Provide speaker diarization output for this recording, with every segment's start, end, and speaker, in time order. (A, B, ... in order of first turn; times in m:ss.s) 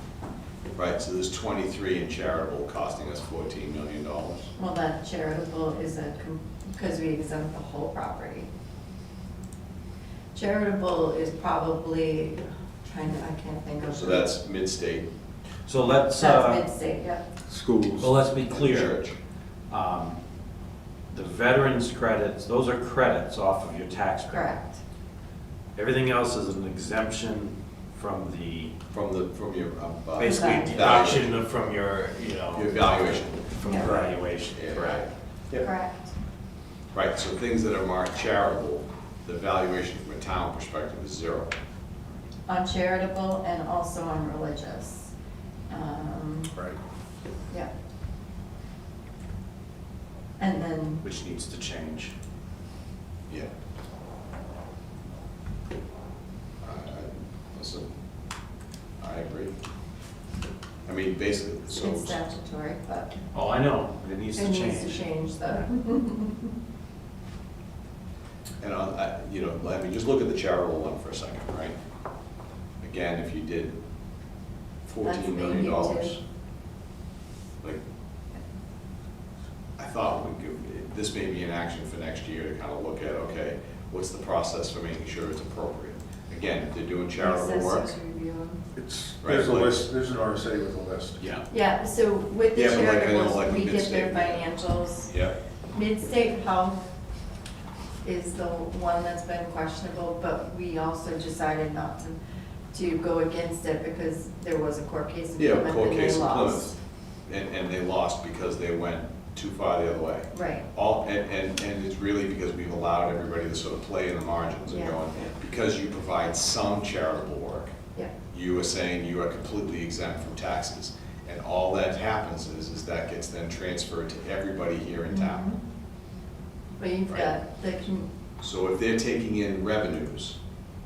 0:00.8-0:04.5 A
0:04.6-0:08.5 B
0:10.3-0:14.3 B
0:13.8-0:15.1 A
0:15.6-0:16.6 C
0:16.1-0:17.2 B
0:17.5-0:18.1 D
0:18.0-0:19.0 C
0:18.5-0:19.2 A
0:19.7-0:20.2 C
0:21.1-0:24.5 C
0:24.3-0:24.8 B
0:25.7-0:28.8 C
0:28.9-0:31.3 A
0:30.2-0:35.0 C
0:30.2-0:31.0 B
0:32.5-0:35.7 A
0:33.6-0:33.9 B
0:33.8-0:34.1 D
0:35.6-0:36.1 B
0:36.9-0:41.5 A
0:42.4-0:45.1 B
0:45.7-0:46.5 B
0:46.5-0:46.8 D
0:50.4-0:51.0 B
0:51.0-0:52.1 C
0:56.6-0:57.9 A
0:59.0-0:59.5 A
1:00.8-1:02.2 A
1:01.7-1:03.2 B
1:03.3-1:05.1 C
1:04.4-1:06.5 B
1:08.6-1:11.8 A
1:12.8-1:13.8 A
1:14.8-1:16.2 A
1:15.0-1:16.2 B
1:19.8-1:27.9 A
1:27.2-1:28.6 B
1:28.7-1:31.2 D
1:29.2-1:29.8 A
1:31.2-1:31.4 A
1:31.5-1:35.1 B
1:32.5-1:34.5 A
1:35.1-1:35.4 A
1:35.7-1:36.8 B
1:38.0-1:42.2 B
1:42.7-1:46.7 B
1:45.4-1:57.7 A
1:50.3-1:50.6 B
1:54.7-1:55.3 B
1:58.3-2:05.4 A
2:05.1-2:05.6 B
2:06.8-2:08.1 B
2:08.4-2:10.4 A